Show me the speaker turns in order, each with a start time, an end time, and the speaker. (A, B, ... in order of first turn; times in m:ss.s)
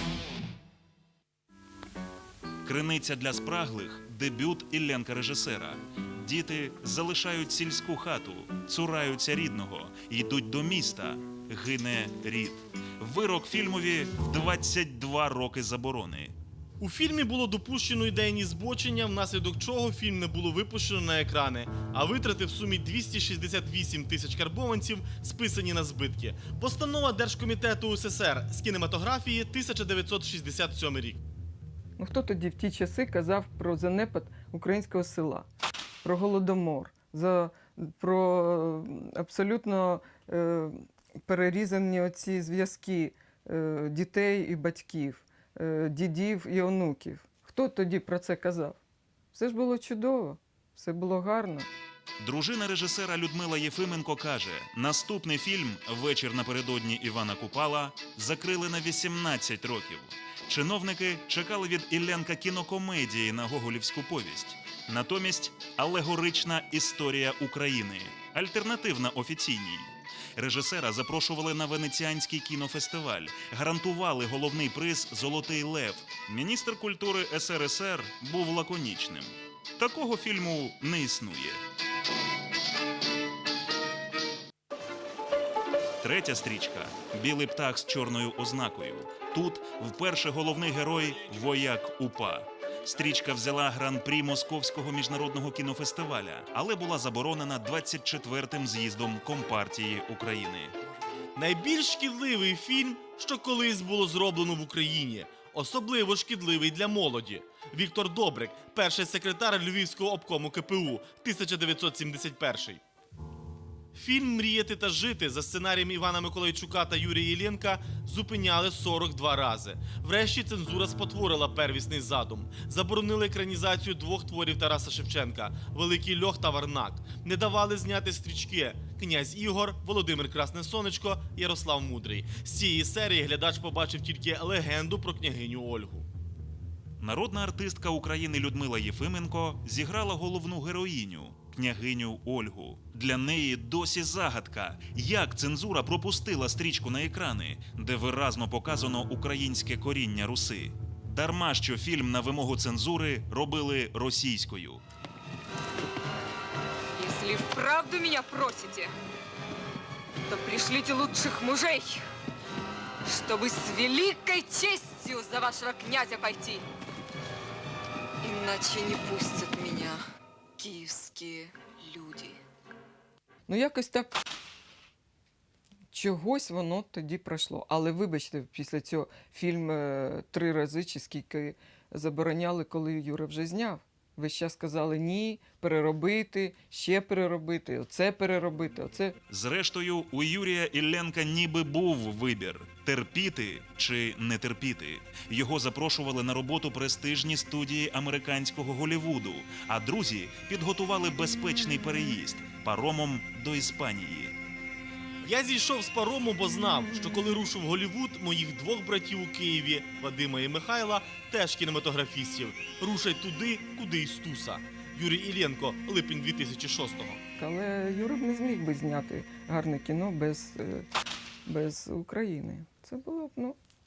0:02.6-0:16.3 A
0:16.8-0:31.2 B
0:32.0-0:35.5 C
0:36.0-0:48.8 C
0:49.3-0:51.7 C
0:52.2-1:21.6 A
1:26.0-1:40.7 A
1:41.4-1:52.8 B
1:53.9-2:16.1 B
2:17.0-2:34.8 A
2:37.0-2:38.9 D
2:40.3-2:42.0 D
2:43.0-2:46.6 D
2:48.2-2:50.0 D
2:50.6-2:52.4 D
2:53.5-2:54.2 C
2:55.9-3:09.2 C
3:09.3-3:24.3 A
3:25.2-3:37.2 B
3:37.4-3:40.9 C
3:41.4-3:43.6 C